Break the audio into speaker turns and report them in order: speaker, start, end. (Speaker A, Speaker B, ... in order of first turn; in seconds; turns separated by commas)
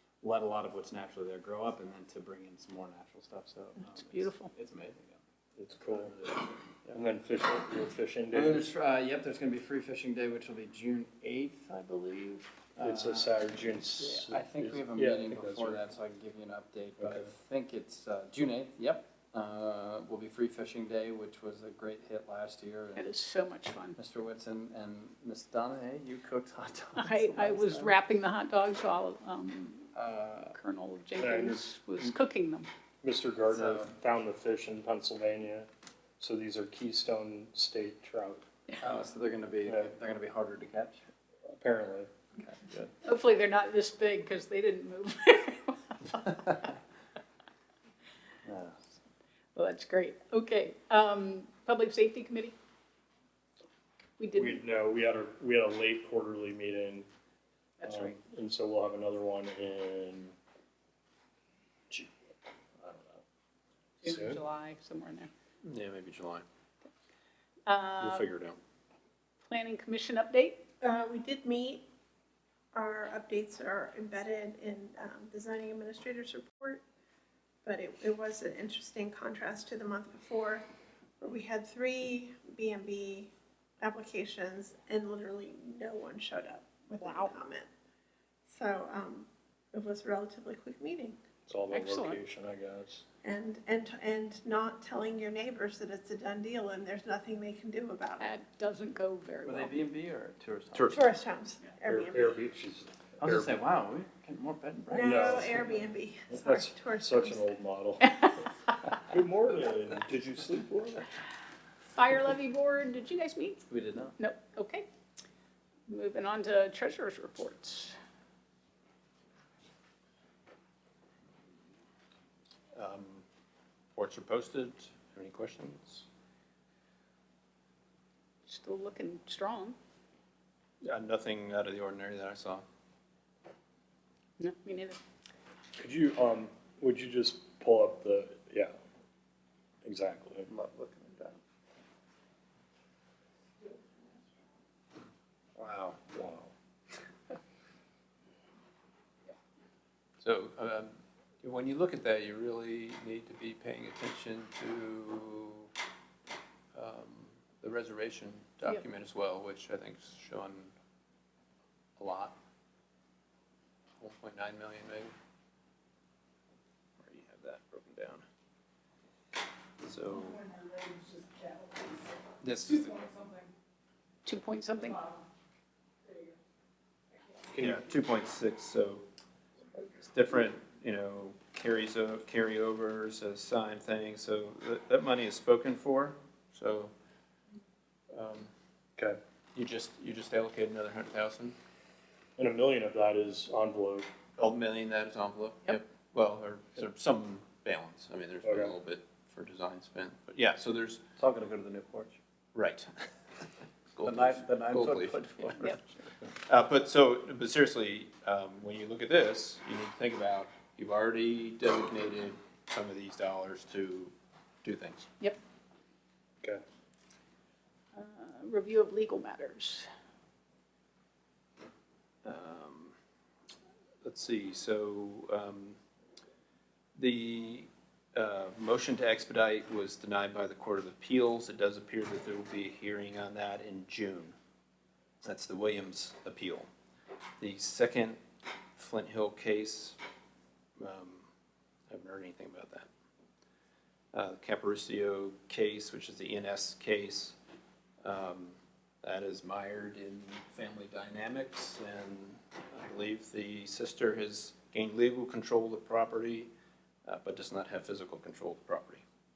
Speaker A: 0.2-5.2, Speaker B: 3.8-4.5, Speaker C: 5.6-6.1, Speaker A: 5.9-6.9, Speaker C: 6.9-8.7, Speaker A: 8.3-23.0, Speaker C: 12.8-15.8, Speaker C: 17.0-17.3, Speaker B: 23.0-24.0, Speaker A: 24.0-28.0, Speaker B: 27.0-29.9, Speaker A: 29.9-30.6, Speaker B: 30.5-32.7, Speaker C: 31.2-32.1, Speaker C: 33.0-38.5, Speaker A: 33.5-33.9, Speaker A: 38.8-41.0, Speaker C: 39.6-39.9, Speaker C: 41.5-42.1, Speaker B: 43.0-46.6, Speaker A: 48.5-48.8, Speaker B: 49.5-52.6, Speaker B: 54.2-54.6, Speaker C: 54.4-57.1, Speaker B: 57.8-58.2, Speaker C: 57.8-60.4, Speaker C: 62.8-63.2, Speaker C: 64.0-64.4, Speaker B: 64.0-65.3, Speaker D: 65.6-66.4, Speaker B: 67.7-68.3, Speaker D: 68.0-68.6, Speaker B: 69.5-70.7, Speaker E: 70.8-71.9, Speaker E: 72.7-76.8, Speaker E: 77.7-80.7, Speaker E: 81.2-87.7, Speaker B: 87.0-87.3, Speaker E: 88.5-91.2, Speaker C: 91.5-93.0, Speaker B: 91.7-92.2, Speaker E: 93.2-98.3, Speaker B: 98.2-99.8, Speaker A: 99.4-101.0, Speaker D: 100.7-101.0, Speaker E: 100.9-102.4, Speaker C: 101.8-103.5, Speaker A: 103.2-105.7, Speaker E: 104.9-107.5, Speaker C: 105.0-105.8, Speaker C: 106.3-108.2, Speaker B: 108.1-108.3, Speaker C: 109.0-111.1, Speaker B: 111.9-113.6, Speaker A: 113.6-114.2, Speaker B: 114.2-114.9, Speaker B: 115.9-118.0, Speaker D: 122.7-123.2, Speaker D: 124.0-126.1, Speaker B: 128.5-129.8, Speaker D: 130.8-132.6, Speaker B: 134.4-135.0, Speaker C: 135.8-138.8, Speaker C: 139.8-140.5, Speaker D: 140.5-141.4, Speaker D: 145.6-146.0, Speaker C: 146.1-146.5, Speaker D: 150.2-155.7, Speaker D: 156.8-160.7, Speaker D: 162.0-162.4, Speaker D: 164.0-165.1, Speaker D: 167.0-168.2, Speaker D: 169.8-170.5, Speaker B: 170.6-172.0, Speaker D: 172.4-173.1, Speaker B: 174.2-175.1, Speaker C: 177.5-177.8, Speaker D: 177.6-179.1, Speaker D: 179.9-186.9, Speaker D: 188.1-188.5, Speaker D: 189.6-191.6, Speaker C: 192.4-194.1, Speaker D: 194.4-201.0, Speaker C: 198.4-198.7, Speaker A: 201.2-202.2, Speaker D: 202.5-202.9, Speaker D: 203.9-205.6, Speaker A: 204.0-205.8, Speaker D: 206.5-215.1, Speaker B: 217.9-219.9, Speaker D: 222.2-222.9, Speaker D: 224.0-225.8, Speaker D: 226.9-234.4, Speaker D: 235.2-236.7, Speaker D: 237.4-238.2, Speaker D: 238.8-240.0, Speaker D: 240.8-241.3, Speaker D: 241.9-242.9, Speaker D: 244.1-247.4, Speaker D: 248.0-256.5, Speaker D: 257.1-259.1